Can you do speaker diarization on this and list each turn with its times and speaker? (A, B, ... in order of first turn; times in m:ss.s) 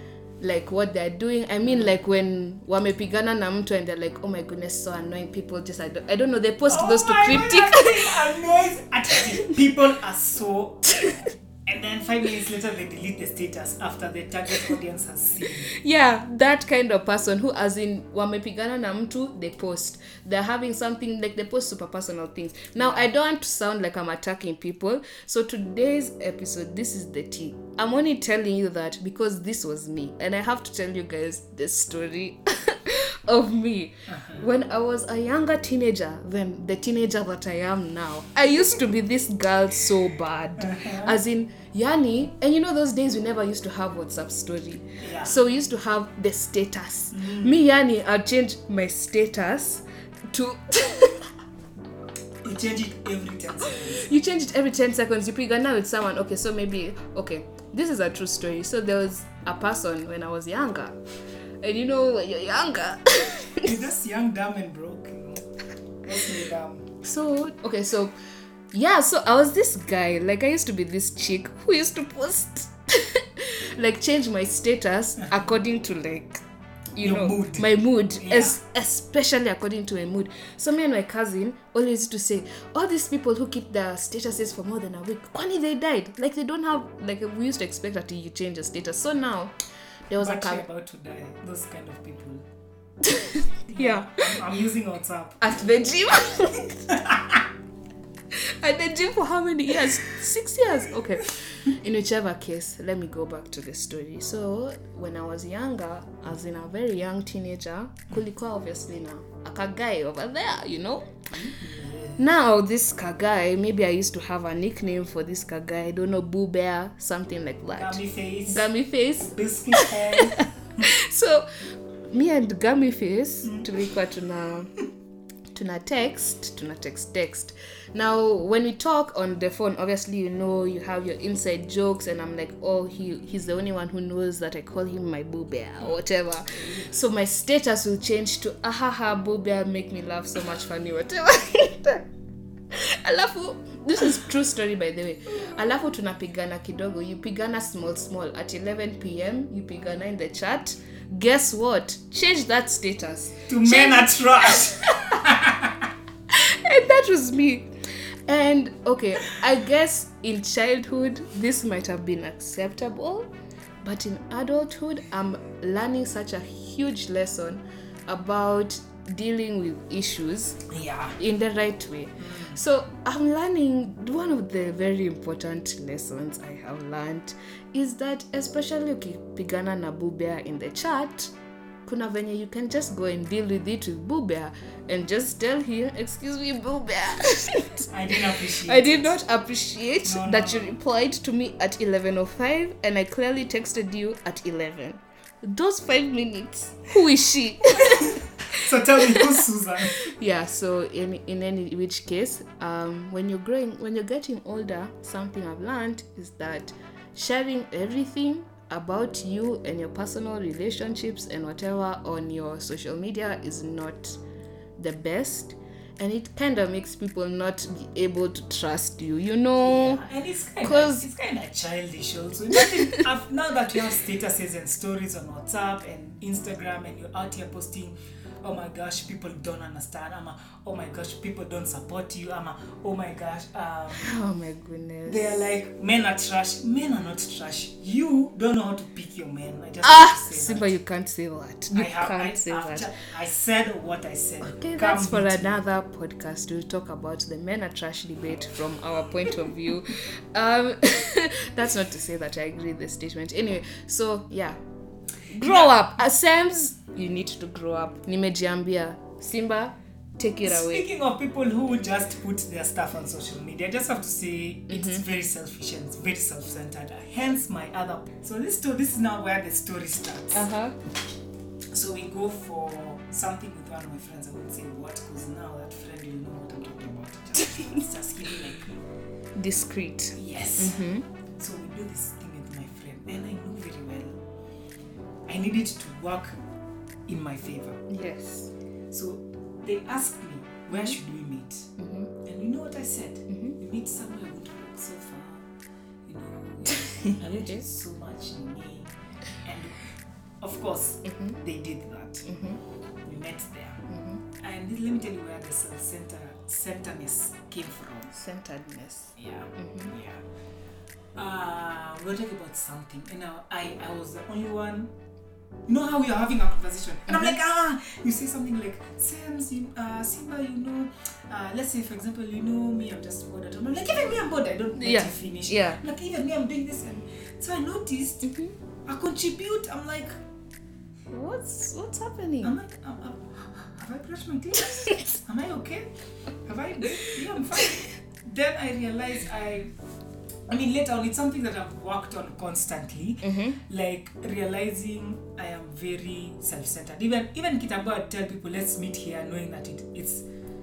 0:00.4-0:08.2 A
0:06.7-0:15.7 B
0:15.7-0:51.3 A
0:22.8-0:23.1 B
0:34.1-0:34.5 B
0:45.0-0:45.4 B
0:52.4-0:54.1 B
0:53.7-1:01.0 A
1:01.6-1:03.8 A
1:03.6-1:05.5 B
1:06.0-1:07.0 B
1:07.0-1:08.1 A
1:08.7-1:16.4 A
1:17.0-1:29.6 A
1:17.0-1:18.6 B
1:30.1-1:30.6 A
1:30.2-1:32.4 B
1:33.0-1:34.2 A
1:33.7-1:35.4 B
1:35.4-1:37.2 A
1:38.3-1:51.3 A
1:51.3-1:52.2 B
1:52.2-2:04.7 A
1:57.8-1:58.7 B
1:59.2-2:00.9 B
2:05.5-2:22.1 A
2:16.5-2:17.0 B
2:22.7-2:35.0 A
2:33.5-2:35.9 B
2:36.3-2:37.7 A
2:38.3-2:43.3 A
2:43.8-3:01.3 A
2:50.7-2:51.2 B
2:52.2-2:52.6 B
3:01.9-3:07.9 A
3:07.9-3:09.2 B
3:08.5-3:18.2 A
3:10.0-3:10.8 B
3:17.8-3:20.1 B
3:19.0-3:19.3 A
3:20.0-3:34.2 A
3:34.8-3:40.0 A
3:39.6-3:54.1 B
3:40.6-3:41.1 A
3:42.6-3:43.0 A
3:53.9-3:55.5 A
3:55.1-4:00.8 B
3:59.8-4:02.9 A
4:01.7-4:05.6 B
4:04.4-4:14.6 A
4:15.3-4:20.8 A
4:15.4-4:15.7 B
4:20.4-4:30.5 B
4:30.3-4:30.8 A
4:31.7-4:38.8 B
4:39.4-4:41.0 A
4:40.2-4:40.8 B
4:41.4-4:44.2 B
4:45.3-4:46.4 B
4:47.1-4:47.9 B
4:47.9-4:48.5 A
4:48.9-4:55.5 B
4:50.7-4:51.0 A
4:51.8-4:52.1 A
4:56.1-5:02.3 B
4:57.1-4:57.6 A
5:01.1-5:01.4 A
5:02.3-5:02.6 A
5:03.0-5:03.8 B
5:03.9-5:04.2 A
5:04.4-5:08.2 B
5:08.1-5:09.9 A
5:09.2-5:10.2 B
5:11.2-5:14.9 B
5:15.7-5:28.3 B
5:24.8-5:25.8 A
5:28.2-5:28.6 A
5:28.9-5:30.2 B
5:31.1-5:32.6 A
5:32.4-5:35.9 B
5:36.4-5:39.7 B
5:40.5-5:50.2 B
5:43.2-5:43.6 A